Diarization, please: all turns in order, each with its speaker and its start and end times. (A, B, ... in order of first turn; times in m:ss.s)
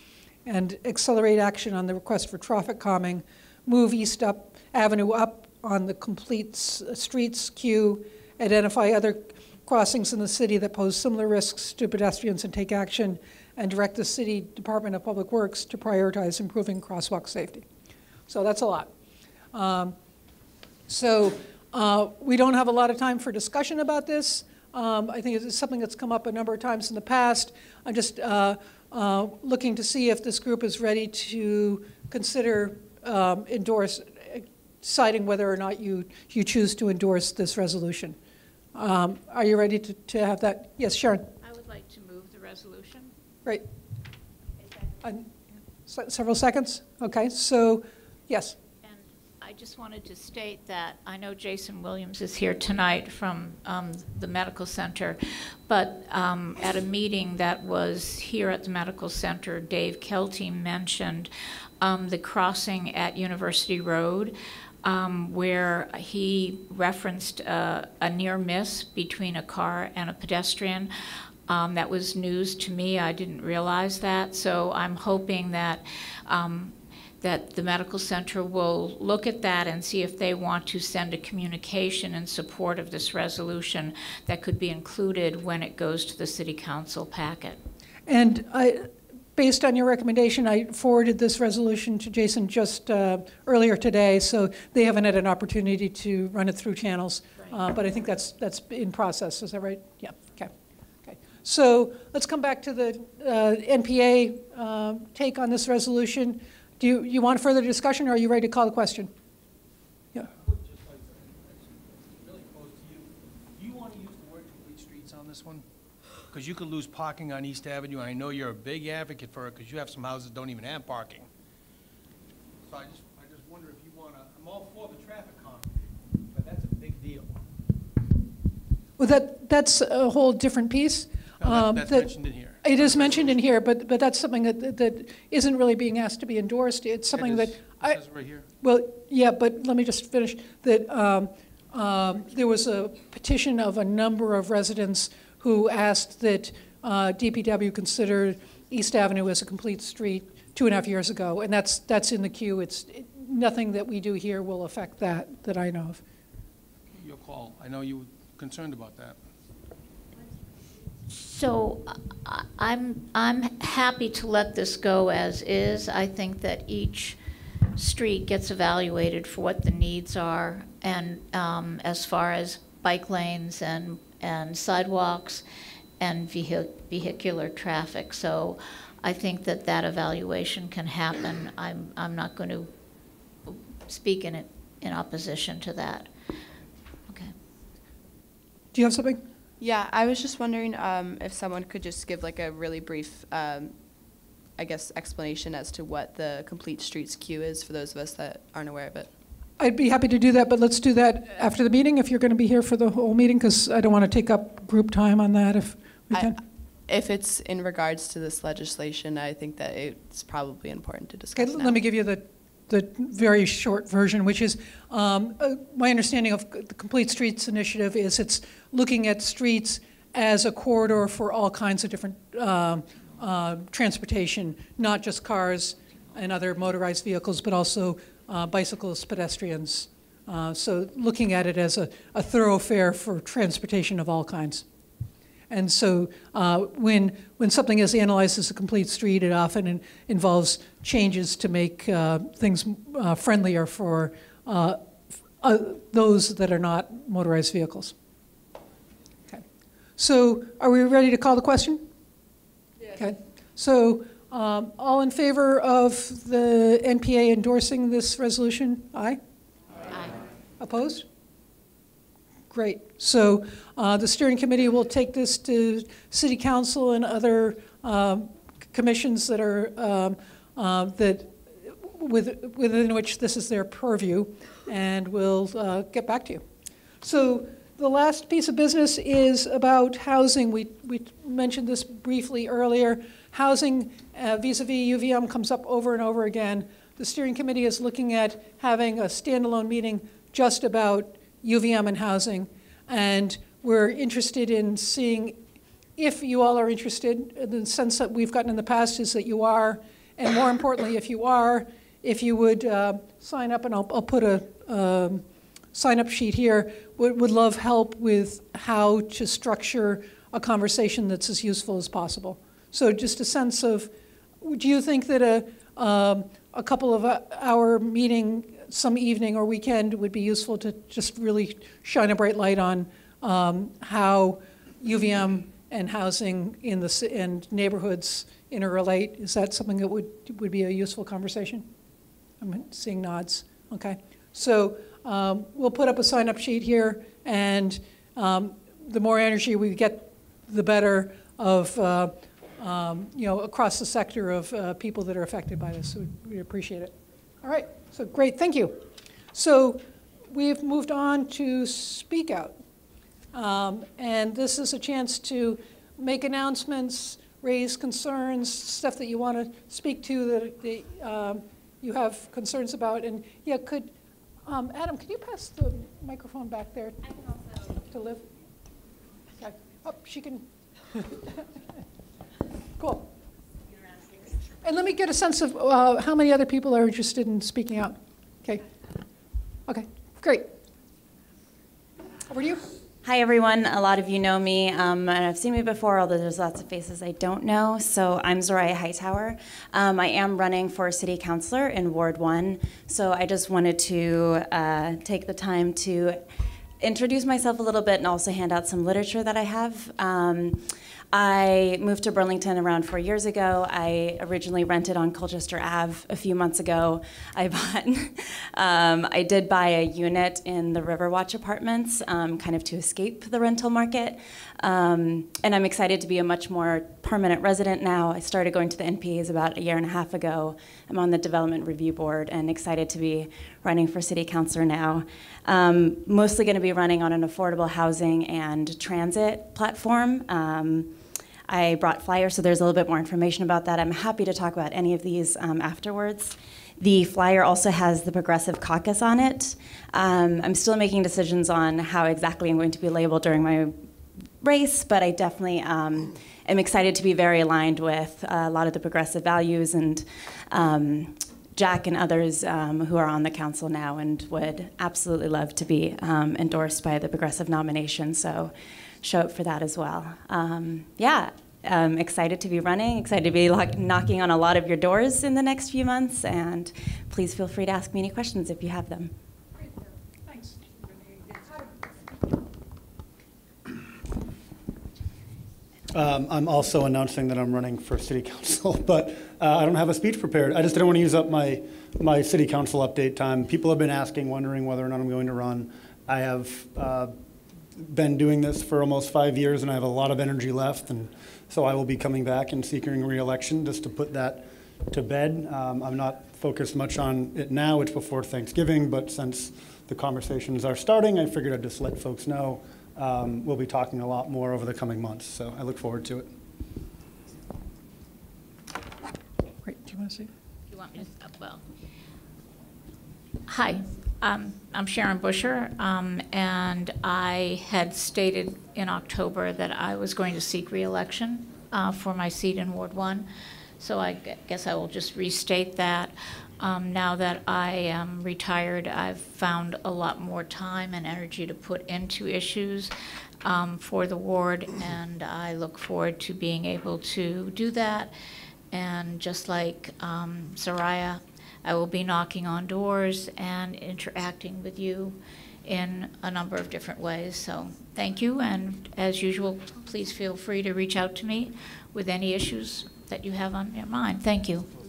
0:00.4-0:17.6 A
0:18.3-0:18.9 A
0:19.5-0:20.0 A
0:20.9-0:38.2 A
0:38.7-0:41.3 A
0:41.4-0:43.1 B
0:45.0-0:45.3 A
0:45.9-0:48.6 A
0:48.8-1:10.9 B
1:11.5-1:27.6 B
1:28.1-1:40.5 A
1:41.0-1:49.1 A
1:50.4-1:55.6 C
1:56.3-2:01.3 C
2:02.7-2:05.7 C
2:06.3-2:07.4 C
2:09.0-2:12.1 A
2:11.4-2:13.3 C
2:12.6-2:18.0 A
2:17.1-2:18.5 C
2:18.6-2:36.0 A
2:37.0-2:39.2 C
2:41.1-2:47.2 B
2:47.8-2:55.4 B
2:56.0-3:02.7 B
3:03.5-3:06.1 B
3:08.7-3:09.2 A
3:09.6-3:13.7 D
3:14.6-3:19.1 D
3:19.6-3:26.4 A
3:26.9-3:31.8 D
3:31.3-3:54.6 A
3:55.5-4:04.8 A
4:05.4-4:07.9 A
4:10.0-4:11.8 A
4:13.0-4:19.2 A
4:20.6-4:21.0 A
4:22.5-4:36.4 A
4:37.0-4:55.4 A
4:56.0-5:31.7 A
5:32.4-5:52.5 A
5:53.3-6:03.9 A
6:04.4-6:07.1 A
6:07.7-6:08.2 A
6:09.4-6:11.3 A
6:12.8-6:13.1 A
6:14.6-6:18.6 A
6:19.7-6:20.5 A
6:22.3-6:22.6 A
6:23.0-6:36.2 E
6:36.8-7:23.8 E
7:24.4-7:49.1 E
7:50.2-7:50.6 A
7:55.9-8:07.1 F
8:07.8-8:26.3 F
8:29.6-8:30.3 A
8:30.7-8:31.6 B
8:33.5-8:43.3 B
8:43.8-8:52.9 B
8:53.4-8:58.1 B
8:58.7-9:14.7 B